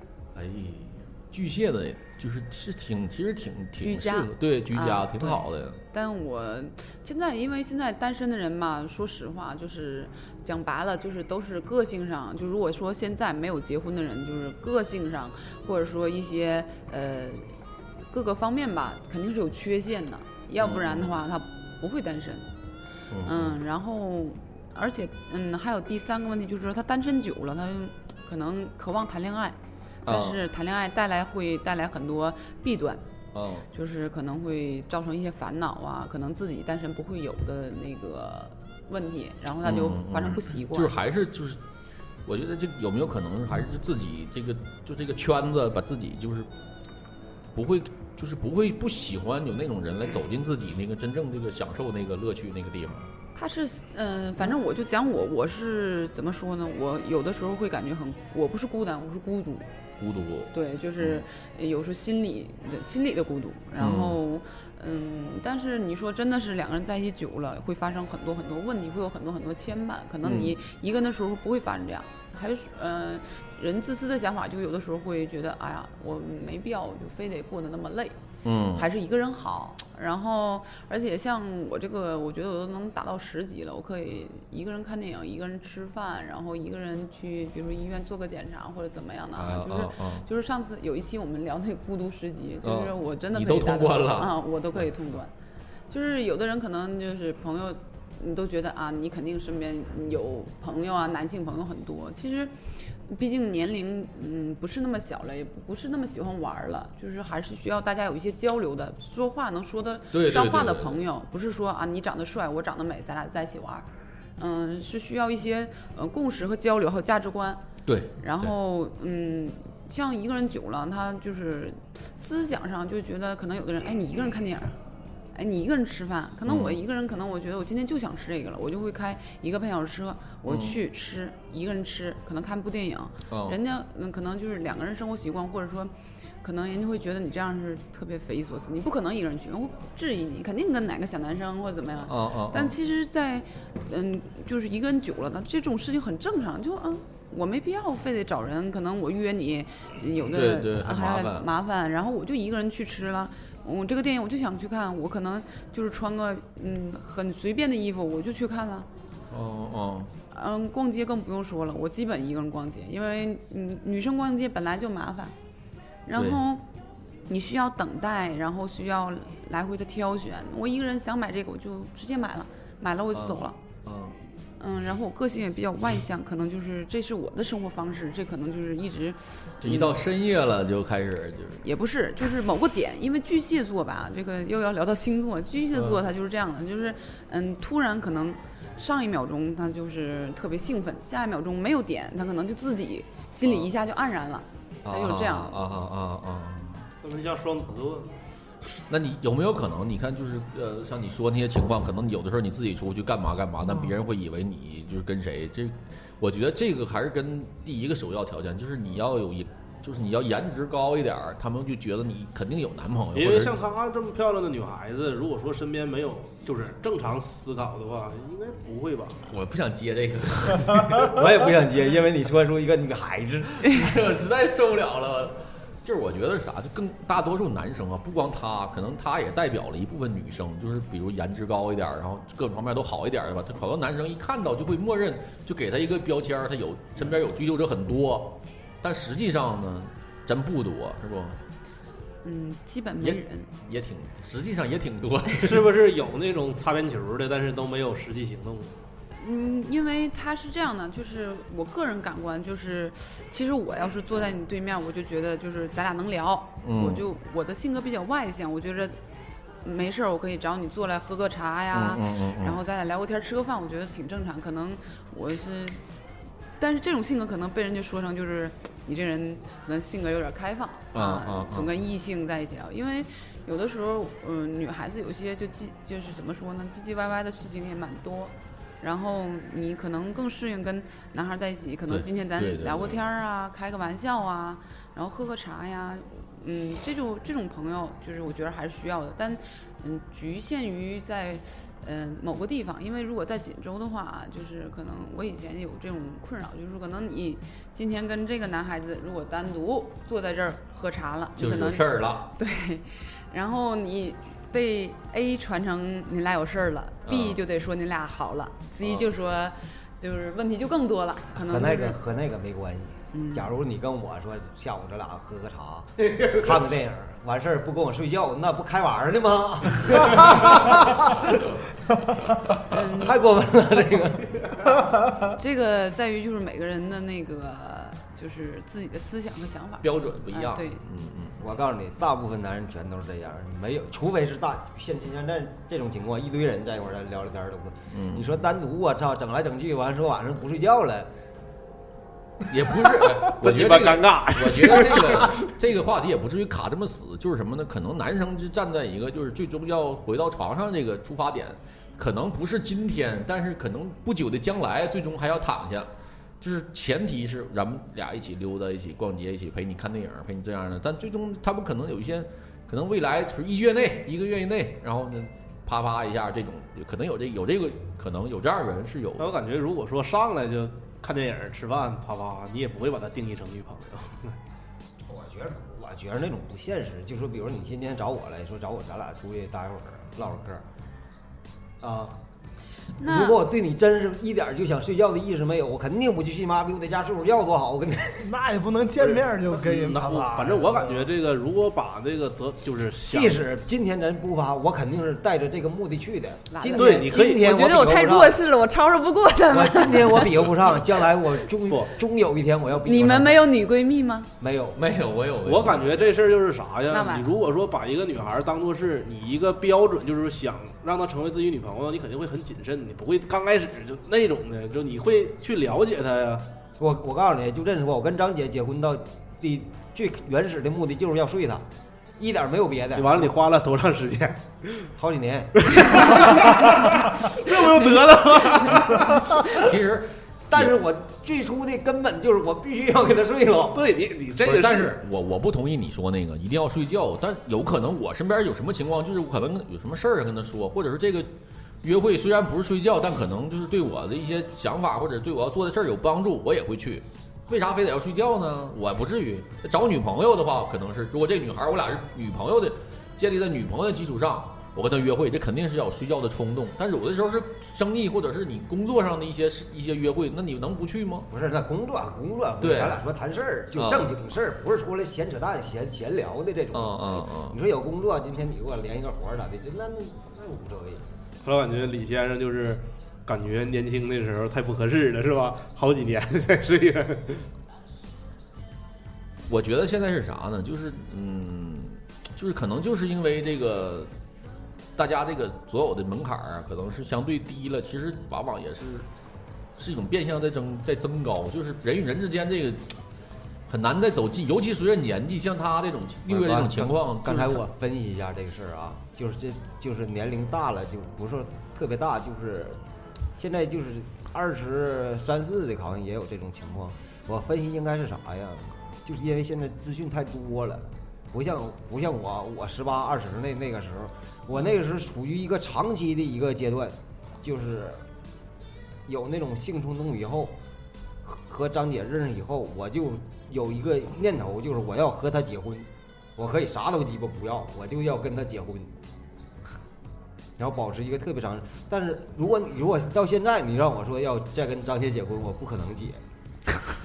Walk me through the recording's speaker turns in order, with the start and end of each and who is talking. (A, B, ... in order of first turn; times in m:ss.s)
0:00.3-0:05.8 A
0:03.8-0:17.6 B
0:18.1-0:22.5 B
0:20.6-0:21.2 A
0:23.1-0:23.6 A
0:23.2-0:33.0 B
0:30.0-0:30.4 A
0:33.3-0:33.7 A
0:33.7-0:40.9 B
0:39.6-0:41.6 A
0:42.2-0:46.5 A
0:47.5-0:53.1 A
0:53.3-0:59.6 B
1:00.0-1:01.2 A
1:00.5-1:18.2 B
1:03.8-1:04.2 A
1:10.2-1:10.5 A
1:18.4-1:18.8 A
1:18.7-1:35.3 B
1:29.4-1:30.2 A
1:32.6-1:35.1 A
1:35.9-1:57.6 B
1:50.1-1:51.0 A
1:57.8-1:58.5 A
1:58.2-2:04.8 B
2:05.3-2:38.9 B
2:06.5-2:06.8 A
2:10.5-2:10.8 A
2:13.3-2:13.6 A
2:22.0-2:22.7 A
2:30.2-2:31.5 A
2:39.3-2:40.1 A
2:40.3-2:45.3 B
2:46.0-2:46.7 B
2:46.1-2:46.4 A
2:47.3-2:53.6 B
2:53.1-2:54.2 A
2:54.6-3:00.0 B
2:59.6-3:01.6 A
3:01.6-3:15.6 B
3:05.7-3:06.0 A
3:13.4-3:13.7 A
3:14.8-3:16.9 A
3:17.0-3:18.2 C
3:18.9-3:33.6 A
3:33.1-3:39.2 C
3:39.3-3:41.2 A
3:41.0-3:43.6 D
3:43.6-4:01.4 A
4:02.2-4:03.5 B
4:03.0-4:05.7 A
4:05.4-4:08.7 C
4:09.2-4:19.0 B
4:16.6-4:17.0 A
4:19.6-4:25.8 B
4:21.7-4:22.6 A
4:26.6-5:12.0 B
4:30.9-4:31.7 A
4:41.9-4:43.0 A
5:01.4-5:02.3 A
5:07.0-5:07.4 A
5:08.8-5:09.1 A
5:11.4-5:21.4 D
5:13.1-5:13.5 B
5:22.7-5:23.1 B
5:22.9-5:24.9 D
5:25.2-5:30.8 B
5:29.8-5:31.4 A
5:31.4-5:41.1 D
5:37.9-5:38.3 A
5:42.5-5:55.9 A
5:43.3-5:45.4 C
5:56.4-6:09.4 A
6:09.2-6:14.4 C
6:15.0-6:20.6 D
6:21.8-6:22.2 D
6:23.0-6:23.4 B
6:23.0-6:28.3 D
6:28.2-6:31.1 E
6:29.0-6:33.4 C
6:33.0-6:38.4 D
6:36.5-6:40.4 B
6:36.7-6:37.5 C
6:39.5-6:43.4 D
6:42.8-6:44.3 B
6:44.4-6:44.8 D
6:44.8-6:46.2 A
6:45.4-6:56.5 C
6:46.9-6:47.3 B
6:56.8-7:01.7 D
7:02.2-7:03.3 D
7:03.0-7:04.9 C
7:04.9-7:06.6 D
7:05.6-7:09.2 C
7:08.6-7:10.7 A
7:10.5-7:13.8 D
7:13.7-7:15.0 C
7:14.4-7:21.3 A
7:21.8-7:41.3 A
7:41.3-7:51.0 D
7:42.6-7:43.0 A
7:43.7-7:44.1 A
7:46.7-7:47.6 A
7:51.4-7:57.5 C
7:59.5-8:04.1 A
8:05.0-8:09.1 A
8:09.8-8:13.0 A
8:13.7-8:17.6 A
8:16.3-8:22.8 D
8:23.4-8:38.0 D
8:39.0-8:40.6 D
8:41.2-8:49.0 D
8:50.6-8:56.2 D